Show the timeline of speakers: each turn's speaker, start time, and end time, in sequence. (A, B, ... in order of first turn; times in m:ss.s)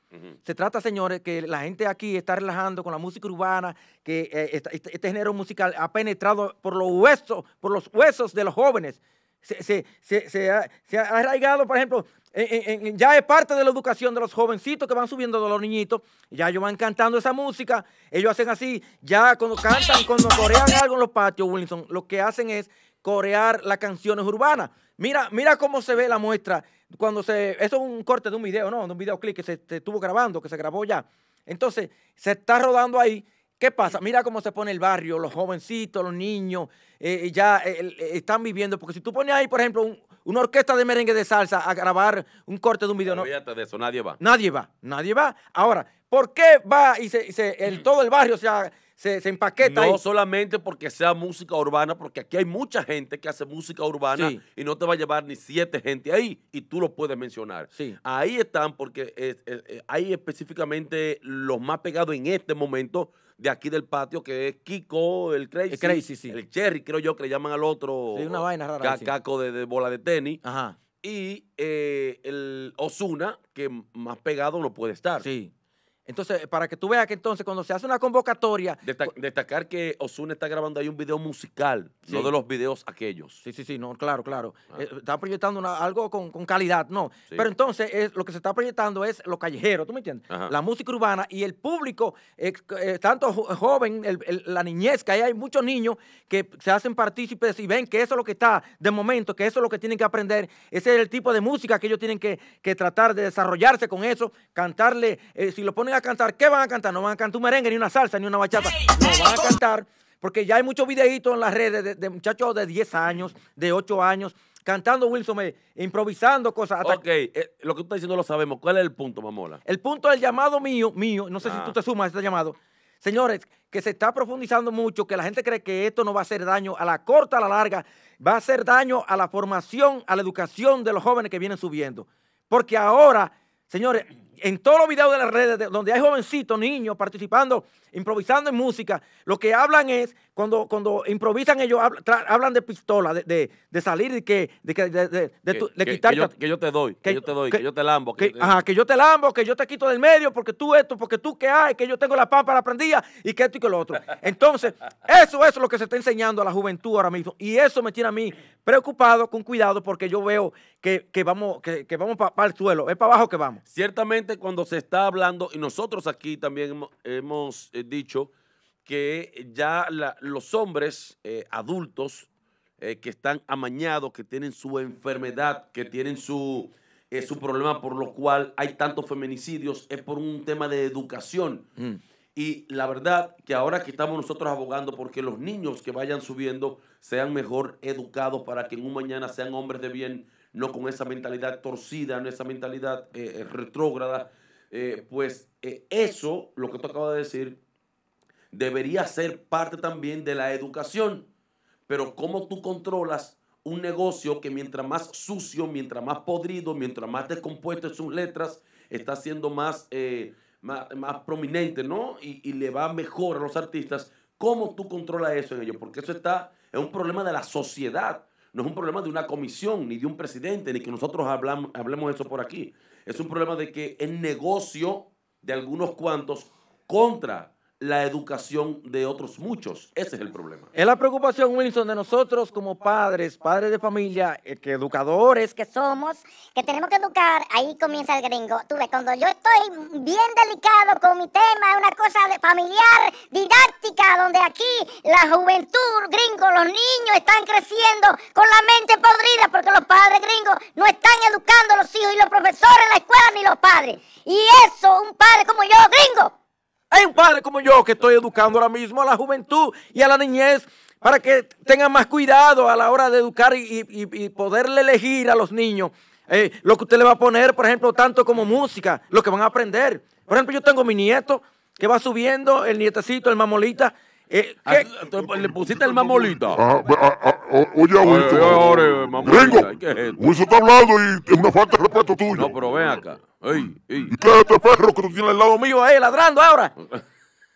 0:00.4-0:43.3 A
0:43.0-0:44.2 B
0:44.2-0:50.0 A
0:49.6-1:10.4 B
0:54.2-0:54.4 A
0:57.7-0:58.0 A
1:05.7-1:06.4 A
1:08.1-1:09.1 A
1:10.4-1:10.8 A
1:11.0-1:15.2 B
1:15.2-1:15.5 A
1:16.1-1:19.1 A
1:18.8-1:23.4 B
1:22.1-1:22.3 A
1:23.4-1:57.0 A
1:56.8-1:59.6 B
1:59.7-2:26.3 A
2:01.4-2:01.8 B
2:25.5-2:28.6 B
2:27.0-2:27.6 A
2:28.2-2:43.6 A
2:43.7-2:48.3 B
2:48.8-2:52.3 B
2:52.8-3:01.7 B
3:02.4-3:17.6 B
3:18.5-3:21.3 B
3:21.9-3:50.7 B
3:50.8-3:55.6 A
3:55.6-4:16.3 C
4:16.9-4:35.0 A
4:34.6-4:36.6 B
4:36.0-4:42.6 D
4:38.0-4:40.3 B
4:42.3-4:44.2 B
4:44.1-4:45.5 D
4:45.4-4:46.7 A